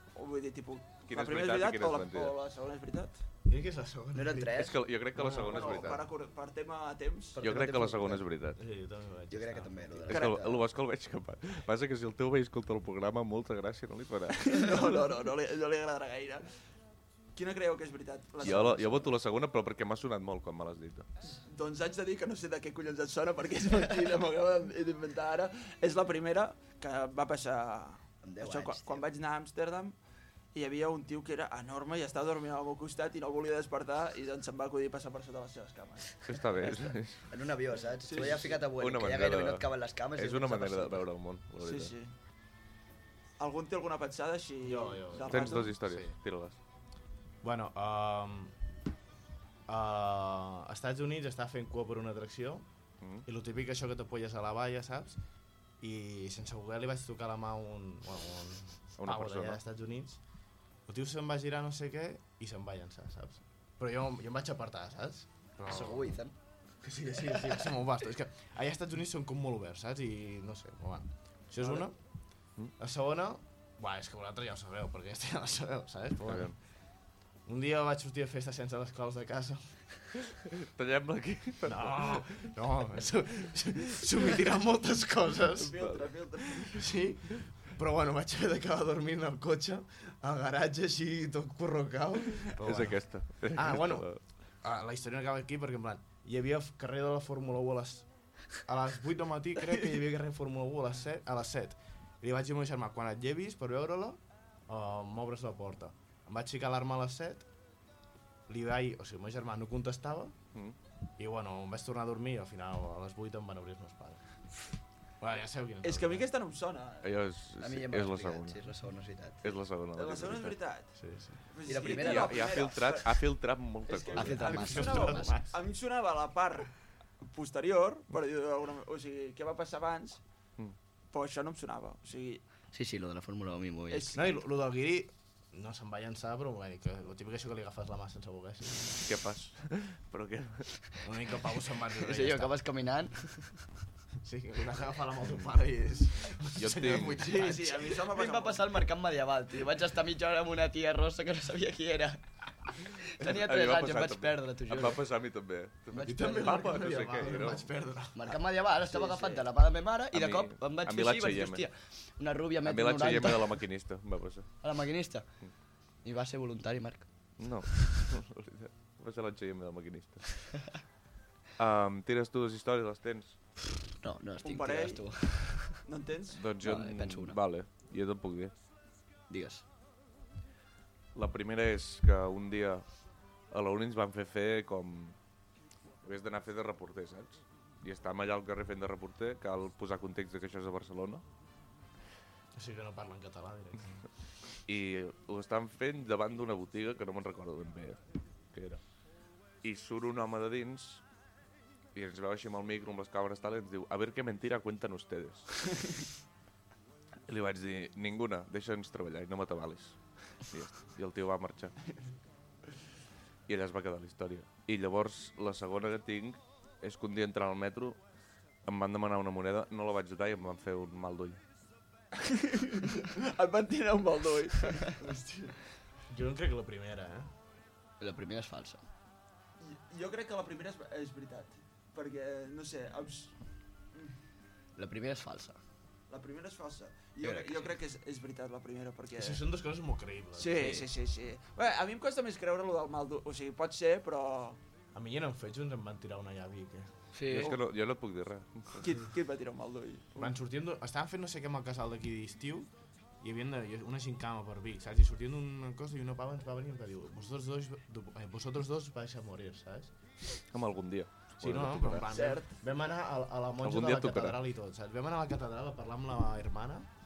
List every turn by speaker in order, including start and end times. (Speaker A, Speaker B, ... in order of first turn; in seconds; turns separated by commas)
Speaker A: 0.1-3.2, Speaker B: 1.1-2.4, Speaker C: 3.5-6.0, Speaker D: 4.1-4.8, Speaker B: 4.5-6.1, Speaker A: 5.3-7.4, Speaker D: 7.4-8.2, Speaker B: 7.4-8.6, Speaker C: 7.8-10.2, Speaker D: 9.3-10.7, Speaker B: 10.1-14.4, Speaker A: 14.4-16.5, Speaker A: 17.4-19.1, Speaker B: 18.4-21.1, Speaker A: 21.2-30.0, Speaker D: 28.2-29.1, Speaker A: 30.5-36.2, Speaker B: 36.2-37.3, Speaker D: 36.7-41.1, Speaker A: 38.0-38.6, Speaker B: 38.2-42.0, Speaker A: 41.6-42.1, Speaker A: 43.4-45.8, Speaker C: 44.6-46.2, Speaker B: 45.3-46.6, Speaker C: 47.4-48.6, Speaker C: 49.7-52.7, Speaker C: 53.2-55.2, Speaker C: 55.8-60.2, Speaker B: 59.0-59.6, Speaker C: 60.9-66.1, Speaker D: 65.7-66.3, Speaker C: 66.8-72.0, Speaker C: 72.8-76.5, Speaker B: 76.2-76.6, Speaker C: 77.5-79.8, Speaker B: 80.5-82.6, Speaker C: 81.7-85.9, Speaker A: 85.5-86.8, Speaker C: 86.7-107.5, Speaker B: 92.6-94.2, Speaker C: 108.5-110.3, Speaker C: 111.2-114.2, Speaker C: 115.2-116.3, Speaker A: 115.8-117.1, Speaker B: 117.0-118.7, Speaker D: 117.6-119.6, Speaker B: 119.4-120.6, Speaker A: 120.0-120.9, Speaker C: 121.0-121.5, Speaker A: 121.5-123.2, Speaker D: 121.7-122.6, Speaker B: 121.8-125.0, Speaker A: 123.9-130.2, Speaker D: 124.2-125.4, Speaker C: 124.4-125.6, Speaker A: 131.1-132.4, Speaker D: 132.7-134.2, Speaker A: 133.9-134.4, Speaker C: 134.1-139.0, Speaker B: 138.9-140.8, Speaker C: 141.0-142.6, Speaker D: 142.0-143.6, Speaker C: 144.2-147.7, Speaker B: 146.6-147.5, Speaker A: 147.2-148.7, Speaker D: 147.5-155.0, Speaker B: 153.1-157.7, Speaker D: 155.9-156.9, Speaker C: 156.0-158.4, Speaker D: 158.1-163.6, Speaker A: 158.9-159.4, Speaker B: 160.1-161.7, Speaker B: 162.6-164.5, Speaker D: 164.6-165.3, Speaker D: 166.0-167.1, Speaker B: 167.4-170.5, Speaker B: 171.6-173.4, Speaker D: 173.9-175.8, Speaker A: 174.4-176.4, Speaker B: 176.3-178.5, Speaker D: 176.6-177.4, Speaker D: 179.3-179.7, Speaker B: 181.2-182.9, Speaker B: 183.5-185.2, Speaker B: 186.0-191.2, Speaker C: 192.6-194.1, Speaker B: 194.7-198.0, Speaker B: 198.5-198.8, Speaker B: 199.6-201.0, Speaker B: 201.9-205.5, Speaker B: 207.3-211.8, Speaker B: 213.5-218.0, Speaker B: 218.7-221.4, Speaker A: 222.1-225.6, Speaker C: 226.1-227.3, Speaker D: 228.0-228.8, Speaker A: 229.6-234.2, Speaker D: 234.8-235.6, Speaker A: 236.1-239.4, Speaker D: 237.2-237.8, Speaker C: 239.1-240.8, Speaker A: 240.4-244.6, Speaker D: 240.5-240.9, Speaker C: 244.9-246.9, Speaker D: 247.1-247.6, Speaker B: 247.3-248.9, Speaker A: 248.8-250.3, Speaker C: 250.2-259.9, Speaker B: 260.5-262.1, Speaker C: 261.4-266.9, Speaker A: 262.1-262.6, Speaker B: 263.6-264.4